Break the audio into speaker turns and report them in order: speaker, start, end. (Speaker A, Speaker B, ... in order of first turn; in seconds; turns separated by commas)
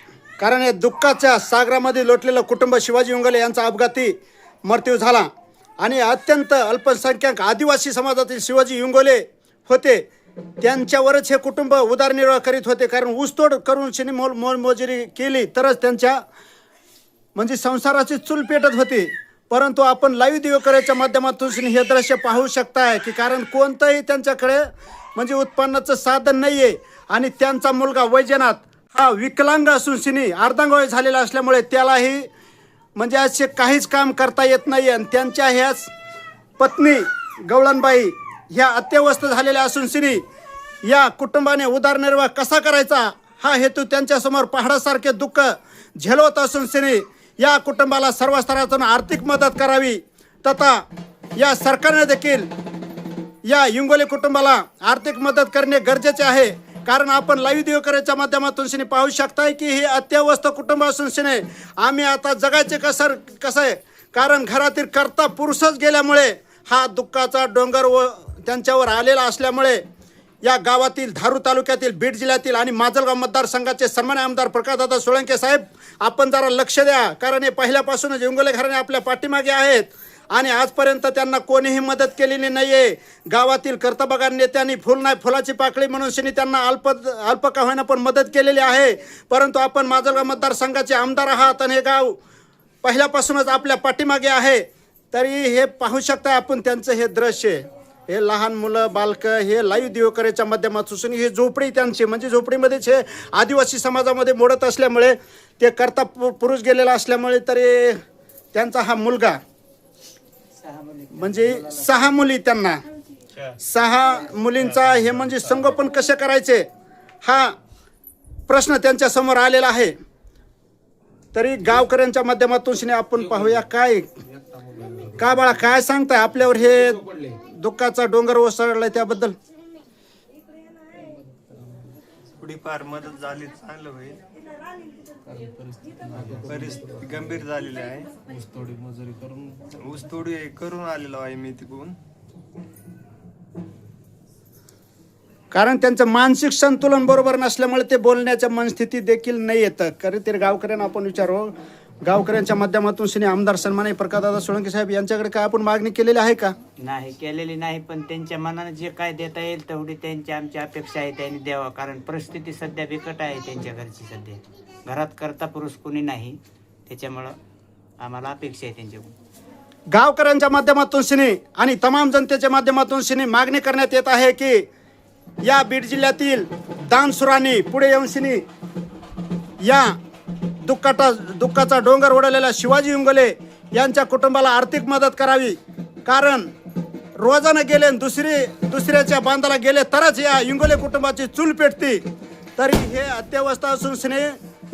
Speaker A: 0.4-5.3, Speaker A: 5.8-10.1, Speaker A: 10.6-16.2, Speaker A: 17.4-32.3, Speaker A: 33.0-35.9, Speaker A: 36.6-40.2, Speaker A: 40.8-50.8, Speaker A: 51.4-52.5, Speaker A: 53.5-69.8, Speaker A: 70.4-92.2, Speaker A: 92.8-108.0, Speaker A: 108.5-109.4, Speaker B: 110.6-112.0, Speaker A: 111.1-112.8, Speaker A: 113.6-116.7, Speaker A: 117.2-117.5, Speaker A: 118.5-120.0, Speaker A: 121.3-124.1, Speaker C: 124.8-125.1, Speaker A: 125.2-129.3, Speaker D: 132.4-134.2, Speaker C: 135.3-137.1, Speaker D: 136.4-138.2, Speaker C: 138.3-139.7, Speaker D: 139.8-142.0, Speaker A: 145.5-156.6, Speaker B: 156.8-167.3, Speaker B: 168.0-169.1, Speaker A: 169.9-174.7, Speaker A: 175.4-178.4, Speaker A: 179.6-180.0, Speaker A: 180.6-186.5, Speaker A: 187.2-192.0, Speaker A: 192.6-194.3